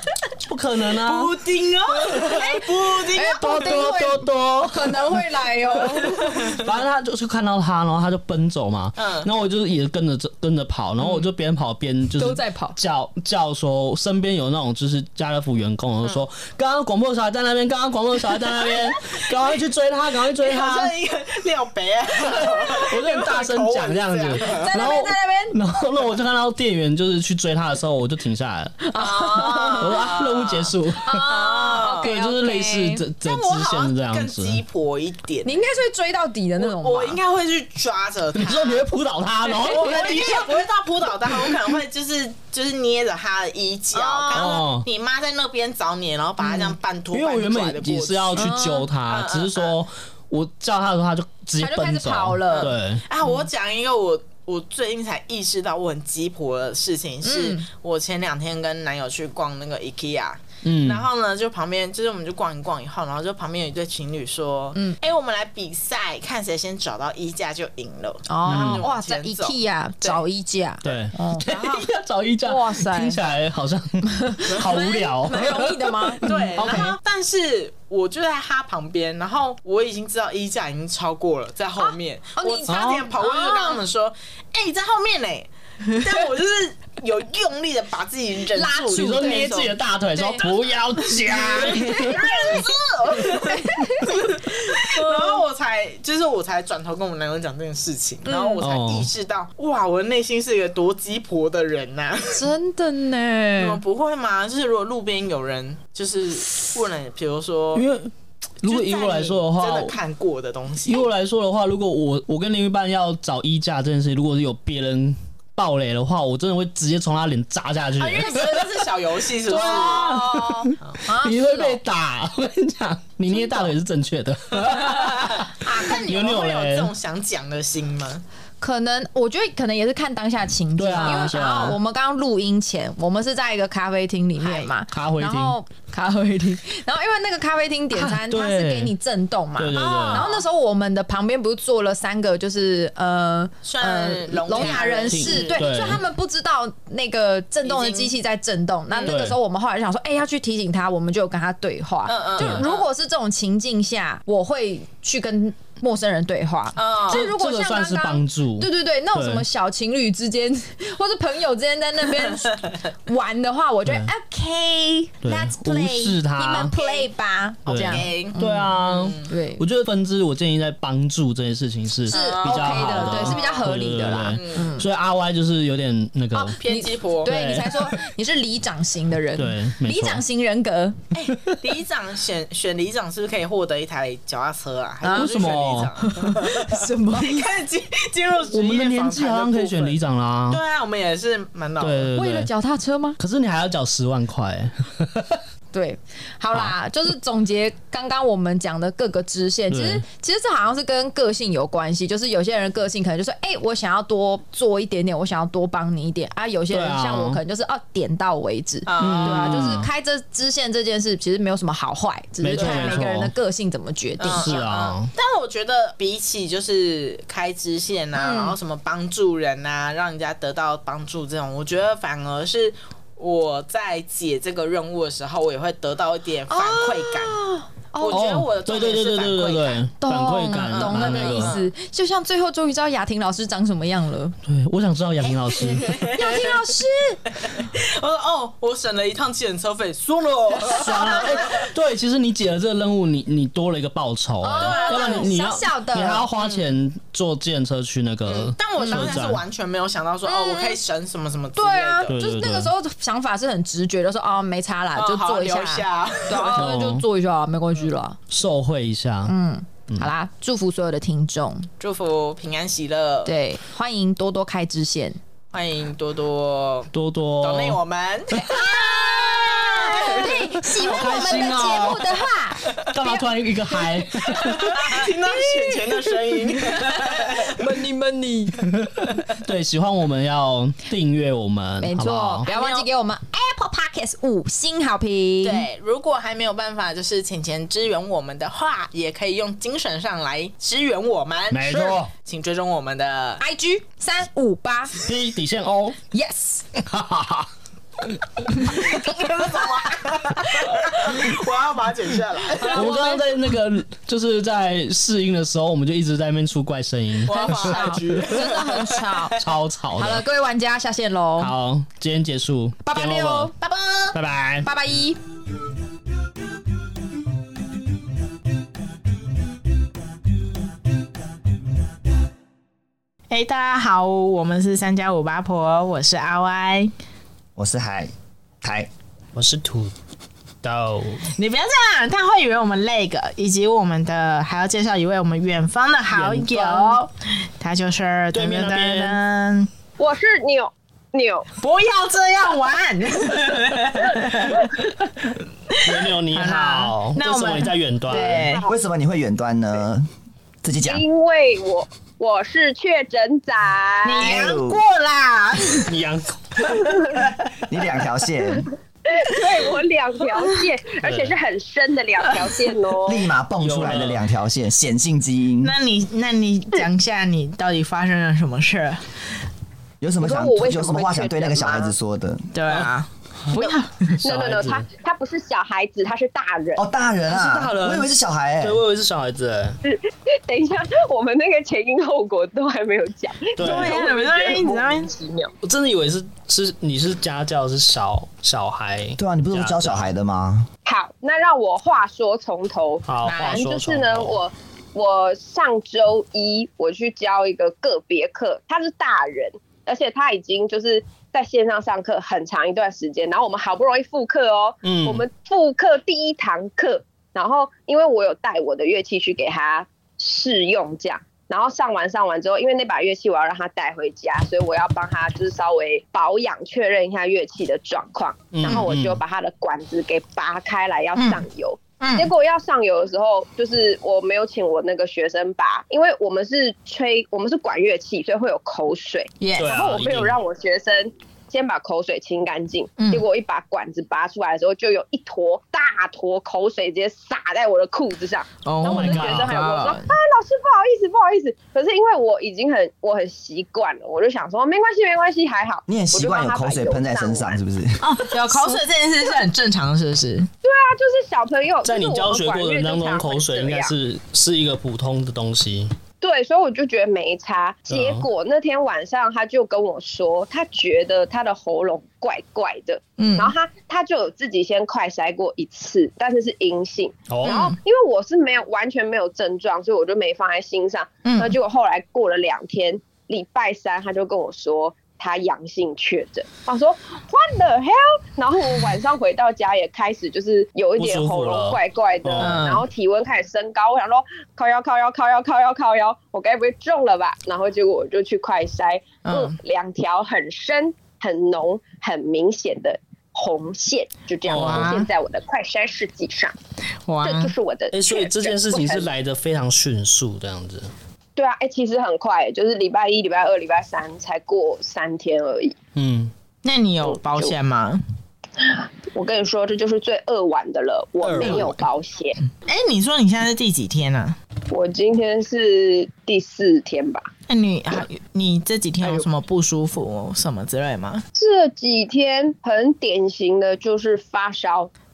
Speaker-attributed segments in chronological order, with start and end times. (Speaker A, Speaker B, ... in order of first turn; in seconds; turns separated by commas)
Speaker A: 0.4-1.4, Speaker B: 1.0-3.9, Speaker C: 1.9-6.6, Speaker A: 3.4-5.2, Speaker A: 6.5-20.9, Speaker B: 9.0-9.3, Speaker C: 12.2-12.8, Speaker B: 20.4-24.9, Speaker A: 22.2-28.8, Speaker C: 24.4-25.6, Speaker C: 28.8-30.1, Speaker B: 28.9-32.1, Speaker A: 29.8-31.2, Speaker C: 30.9-33.0, Speaker A: 32.0-34.6, Speaker B: 33.2-35.5, Speaker C: 35.4-37.2, Speaker B: 36.6-38.8, Speaker A: 38.3-40.5, Speaker B: 39.6-49.8, Speaker C: 43.9-44.6, Speaker A: 44.3-44.9, Speaker C: 46.4-46.7, Speaker A: 47.1-53.0, Speaker C: 48.4-48.9, Speaker C: 51.6-52.7, Speaker B: 52.5-70.2, Speaker C: 57.2-57.6, Speaker A: 60.6-61.1, Speaker C: 68.3-71.8, Speaker A: 68.5-68.8, Speaker A: 70.8-77.0, Speaker C: 72.4-73.2, Speaker C: 74.0-76.9, Speaker B: 76.2-102.5, Speaker C: 81.8-83.8, Speaker A: 82.7-83.0, Speaker C: 88.5-89.5, Speaker A: 88.9-92.6, Speaker C: 91.7-95.4, Speaker C: 98.2-98.6, Speaker A: 98.6-99.1, Speaker C: 102.3-103.8, Speaker B: 103.6-107.8, Speaker A: 107.7-109.9, Speaker B: 108.6-111.1, Speaker A: 110.8-118.8, Speaker B: 118.0-120.1, Speaker C: 119.5-121.8, Speaker A: 119.5-126.9, Speaker C: 123.3-123.7, Speaker B: 125.3-128.2, Speaker C: 125.6-126.0, Speaker C: 128.6-169.6, Speaker A: 130.8-131.8, Speaker B: 131.0-131.8, Speaker B: 134.4-134.7, Speaker A: 134.9-135.6, Speaker A: 138.0-138.9, Speaker A: 139.6-140.3, Speaker B: 139.7-140.4, Speaker B: 143.6-146.0, Speaker A: 144.5-146.0, Speaker B: 147.6-148.1, Speaker B: 148.9-149.2, Speaker A: 149.1-149.4, Speaker B: 152.1-152.9, Speaker A: 152.4-152.6, Speaker B: 156.8-157.3, Speaker A: 157.1-159.4, Speaker A: 165.2-166.7, Speaker B: 166.7-167.1, Speaker A: 167.7-176.6, Speaker B: 167.8-169.3, Speaker B: 172.1-174.7, Speaker C: 172.1-174.8, Speaker C: 176.3-181.0, Speaker B: 176.6-177.3, Speaker A: 177.2-177.9, Speaker A: 179.3-180.2, Speaker B: 181.1-190.0, Speaker A: 181.3-181.6, Speaker C: 185.0-185.3, Speaker A: 185.1-185.9, Speaker C: 186.0-187.4, Speaker A: 188.5-190.6, Speaker B: 190.5-192.1, Speaker A: 191.8-192.5, Speaker C: 192.1-193.2, Speaker A: 193.2-195.4, Speaker C: 195.7-214.6, Speaker A: 199.7-200.0, Speaker A: 206.7-207.4, Speaker B: 208.8-209.9, Speaker A: 209.0-209.9, Speaker A: 212.4-213.3, Speaker B: 212.5-213.0, Speaker B: 214.2-227.4, Speaker A: 214.2-215.1, Speaker C: 218.1-218.6, Speaker C: 226.5-228.2, Speaker B: 228.0-229.8, Speaker A: 228.1-231.5, Speaker C: 230.0-234.3, Speaker B: 230.5-231.7, Speaker A: 234.4-235.9, Speaker B: 235.6-236.6, Speaker C: 235.8-237.2, Speaker B: 237.4-241.7, Speaker A: 240.7-249.4, Speaker C: 244.4-246.3, Speaker B: 244.6-245.3, Speaker B: 246.4-246.6, Speaker B: 248.3-252.1, Speaker C: 248.8-249.1, Speaker C: 250.2-250.8, Speaker C: 251.6-258.2, Speaker A: 252.1-252.7, Speaker B: 254.9-256.8, Speaker A: 256.6-257.0, Speaker A: 258.3-259.3, Speaker C: 259.2-261.7, Speaker B: 261.8-263.3, Speaker C: 263.2-265.2, Speaker B: 265.5-271.8, Speaker A: 266.9-267.8, Speaker C: 268.3-278.6, Speaker A: 270.2-272.2, Speaker A: 272.8-274.9, Speaker B: 274.3-277.6, Speaker A: 278.8-282.5, Speaker C: 281.8-285.6, Speaker B: 282.4-282.9, Speaker B: 285.4-293.4, Speaker A: 291.5-292.1, Speaker C: 293.4-294.9, Speaker A: 295.0-296.0, Speaker C: 296.1-296.6, Speaker A: 296.8-297.5, Speaker B: 298.6-302.9, Speaker C: 302.6-303.3, Speaker A: 302.7-307.8, Speaker B: 307.2-309.3, Speaker C: 307.3-309.4, Speaker A: 309.4-310.2, Speaker C: 309.9-311.5, Speaker A: 311.4-313.5, Speaker C: 312.8-313.5, Speaker B: 313.6-314.1, Speaker A: 314.1-314.7, Speaker C: 314.6-315.2, Speaker B: 323.3-326.9, Speaker D: 327.6-328.1, Speaker D: 328.6-328.9, Speaker A: 329.3-329.9, Speaker A: 330.6-331.3, Speaker B: 331.4-339.7, Speaker A: 336.1-337.0, Speaker A: 338.3-339.2, Speaker E: 340.0-341.5, Speaker B: 341.6-344.9, Speaker B: 345.7-348.7, Speaker A: 345.8-348.5, Speaker E: 348.1-348.7, Speaker D: 348.6-350.1, Speaker D: 350.6-351.0, Speaker E: 350.8-354.5, Speaker B: 354.0-355.9, Speaker D: 354.2-354.8, Speaker A: 355.9-356.9, Speaker E: 356.7-357.2, Speaker D: 357.7-358.7, Speaker E: 359.1-363.3, Speaker A: 361.0-361.3, Speaker D: 363.0-365.7, Speaker A: 363.6-364.2, Speaker B: 365.6-369.1, Speaker D: 370.0-372.5, Speaker E: 370.2-371.9, Speaker B: 372.5-374.1, Speaker E: 373.5-376.9, Speaker A: 374.2-374.9, Speaker D: 376.8-378.8, Speaker A: 377.3-379.8, Speaker E: 379.8-385.5, Speaker A: 383.6-384.1, Speaker B: 383.6-385.1, Speaker A: 385.6-390.1, Speaker D: 389.2-390.7, Speaker E: 390.9-447.6, Speaker A: 393.1-394.4, Speaker B: 393.2-393.6, Speaker A: 404.8-405.2, Speaker A: 418.5-419.2, Speaker B: 421.1-421.4, Speaker B: 422.0-422.3, Speaker B: 429.4-429.7, Speaker A: 429.6-430.4, Speaker B: 433.0-433.2, Speaker B: 438.6-440.1, Speaker A: 438.8-439.6, Speaker D: 445.9-448.0, Speaker B: 448.0-450.5, Speaker E: 450.6-453.9, Speaker A: 451.8-455.9, Speaker E: 456.2-496.5, Speaker A: 457.9-458.2, Speaker B: 463.2-463.5, Speaker A: 467.3-467.6, Speaker B: 467.4-467.8, Speaker B: 471.2-471.5, Speaker A: 481.0-482.6, Speaker B: 482.4-482.9, Speaker B: 489.2-489.6, Speaker A: 494.4-495.0, Speaker B: 494.5-495.1, Speaker B: 497.1-497.5, Speaker E: 497.2-499.1, Speaker A: 497.9-500.9, Speaker E: 501.4-505.7, Speaker A: 505.9-506.3, Speaker B: 506.6-508.0, Speaker E: 507.0-507.5, Speaker E: 508.6-512.4, Speaker A: 511.2-511.9, Speaker B: 511.4-511.6, Speaker B: 512.6-514.4, Speaker E: 514.7-517.3, Speaker B: 517.5-521.2, Speaker E: 519.0-519.3, Speaker E: 521.3-524.9